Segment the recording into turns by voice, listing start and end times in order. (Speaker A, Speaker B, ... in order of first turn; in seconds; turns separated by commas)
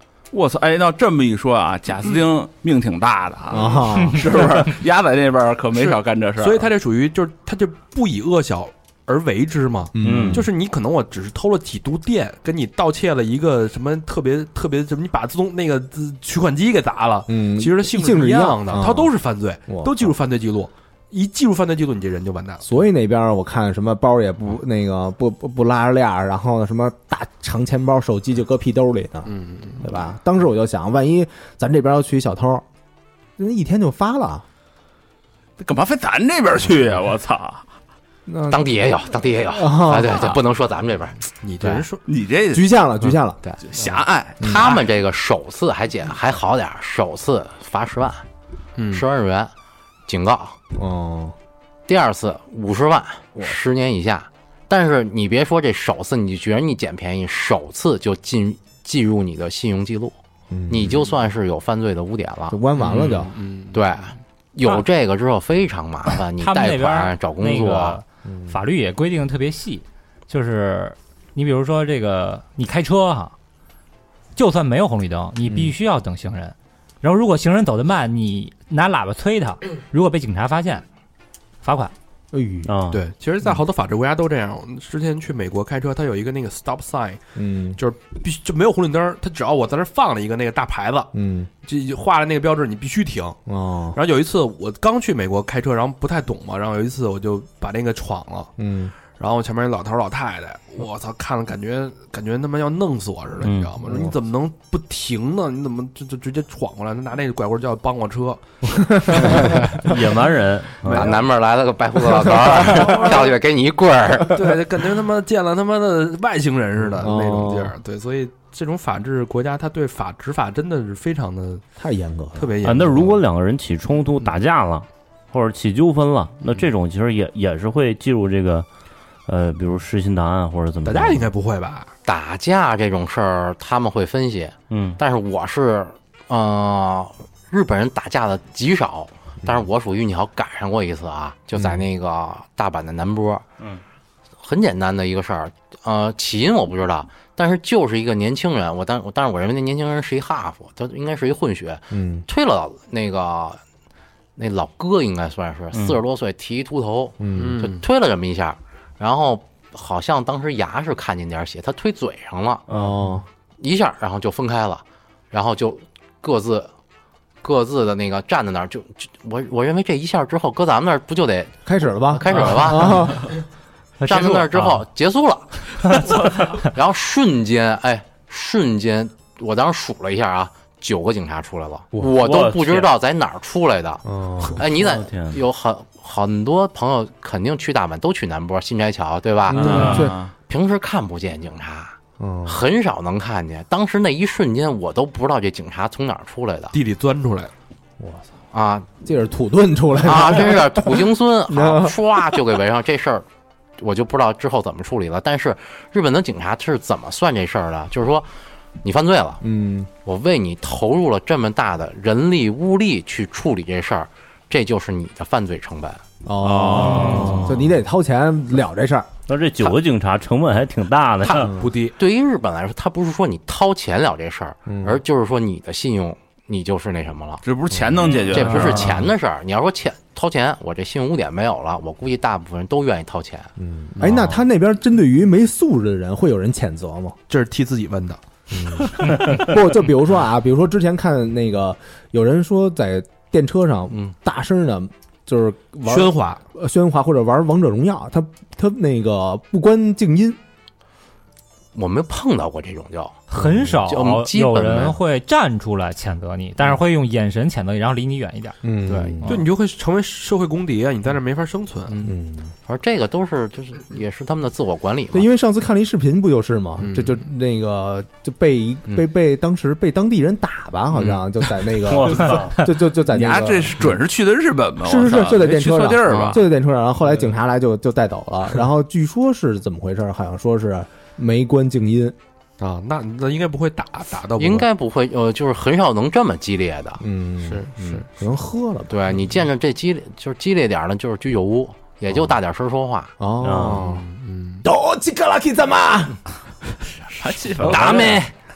Speaker A: 0.3-6.7, Speaker B: 3.5-4.3, Speaker C: 5.7-22.8, Speaker B: 9.9-10.5, Speaker D: 10.0-10.5, Speaker B: 17.3-19.1, Speaker B: 19.7-20.1, Speaker B: 22.6-32.6, Speaker C: 29.2-29.9, Speaker B: 33.4-34.4, Speaker A: 35.6-37.6, Speaker B: 38.3-40.4, Speaker E: 38.5-41.8, Speaker C: 41.4-42.0, Speaker A: 42.0-42.7, Speaker B: 42.5-43.4, Speaker A: 43.6-44.8, Speaker B: 44.4-44.7, Speaker E: 44.4-48.2, Speaker C: 48.8-49.0, Speaker E: 48.9-49.5, Speaker E: 50.1-50.6, Speaker B: 50.7-51.3, Speaker E: 51.9-60.1, Speaker B: 60.5-61.0, Speaker E: 60.7-62.6, Speaker B: 62.5-63.3, Speaker C: 62.8-64.0, Speaker E: 63.7-68.0, Speaker F: 66.4-73.3, Speaker B: 68.2-68.6, Speaker F: 74.3-80.8, Speaker F: 81.6-81.9, Speaker B: 82.3-82.7, Speaker D: 82.7-83.0, Speaker C: 82.9-87.2, Speaker B: 87.3-87.8, Speaker C: 87.8-91.1, Speaker B: 91.1-91.5, Speaker C: 91.6-93.4, Speaker B: 93.5-94.0, Speaker C: 93.9-98.5, Speaker B: 98.6-98.9, Speaker C: 99.2-110.0, Speaker D: 103.4-103.8, Speaker B: 103.8-104.2, Speaker B: 108.8-109.3, Speaker D: 109.3-111.2, Speaker C: 110.8-111.1, Speaker E: 110.8-114.4, Speaker B: 112.1-113.0, Speaker C: 112.6-113.3, Speaker C: 114.3-121.6, Speaker B: 117.0-117.8, Speaker B: 121.8-122.5, Speaker C: 122.3-123.2, Speaker D: 122.6-128.7, Speaker D: 129.2-131.3, Speaker C: 130.8-131.9, Speaker E: 132.0-143.4, Speaker D: 134.7-135.0, Speaker E: 144.4-153.6, Speaker B: 151.9-152.2, Speaker E: 154.3-162.6, Speaker D: 155.7-156.0, Speaker B: 157.2-157.6, Speaker C: 157.3-157.8, Speaker D: 162.7-163.1, Speaker B: 162.7-163.2, Speaker E: 163.6-166.7, Speaker E: 167.4-173.2, Speaker B: 171.6-173.3, Speaker F: 174.0-174.8, Speaker E: 174.1-184.0, Speaker D: 182.2-182.9, Speaker B: 184.0-184.6, Speaker E: 184.5-196.7, Speaker D: 184.7-185.4, Speaker B: 189.5-190.2, Speaker A: 189.6-190.3, Speaker C: 189.6-189.9, Speaker B: 192.2-192.6, Speaker C: 196.7-197.5, Speaker B: 198.0-198.3, Speaker E: 198.5-198.9, Speaker B: 199.0-202.4, Speaker E: 200.0-203.2, Speaker E: 203.8-208.3, Speaker E: 208.8-209.4, Speaker B: 209.4-209.9, Speaker E: 210.0-216.0, Speaker B: 216.2-219.1, Speaker A: 216.4-217.4, Speaker D: 216.8-217.6, Speaker D: 219.3-221.5, Speaker E: 221.2-227.4, Speaker C: 221.3-221.9, Speaker B: 221.4-221.7, Speaker B: 224.7-225.0, Speaker A: 227.4-229.0, Speaker C: 227.7-228.1, Speaker E: 228.3-233.5, Speaker B: 233.6-237.2, Speaker C: 234.0-234.4, Speaker C: 237.3-239.2, Speaker B: 238.5-250.4, Speaker C: 245.8-246.4, Speaker E: 251.7-253.2, Speaker F: 253.3-258.6, Speaker B: 253.3-253.8, Speaker E: 253.8-255.0, Speaker B: 258.6-259.4, Speaker E: 258.9-259.4, Speaker C: 259.2-262.0, Speaker E: 261.9-265.3, Speaker B: 262.0-262.5, Speaker B: 265.1-274.0, Speaker C: 266.8-267.2, Speaker D: 271.9-272.6, Speaker A: 273.0-276.4, Speaker B: 274.8-282.1, Speaker E: 276.1-276.3, Speaker C: 282.6-284.7, Speaker E: 284.4-287.0, Speaker B: 287.0-288.9, Speaker C: 287.4-288.1, Speaker E: 288.9-293.1, Speaker B: 293.2-294.0, Speaker D: 293.4-293.8, Speaker C: 293.6-294.6, Speaker B: 294.6-296.2, Speaker A: 297.1-298.3, Speaker C: 297.6-298.2, Speaker D: 297.8-298.1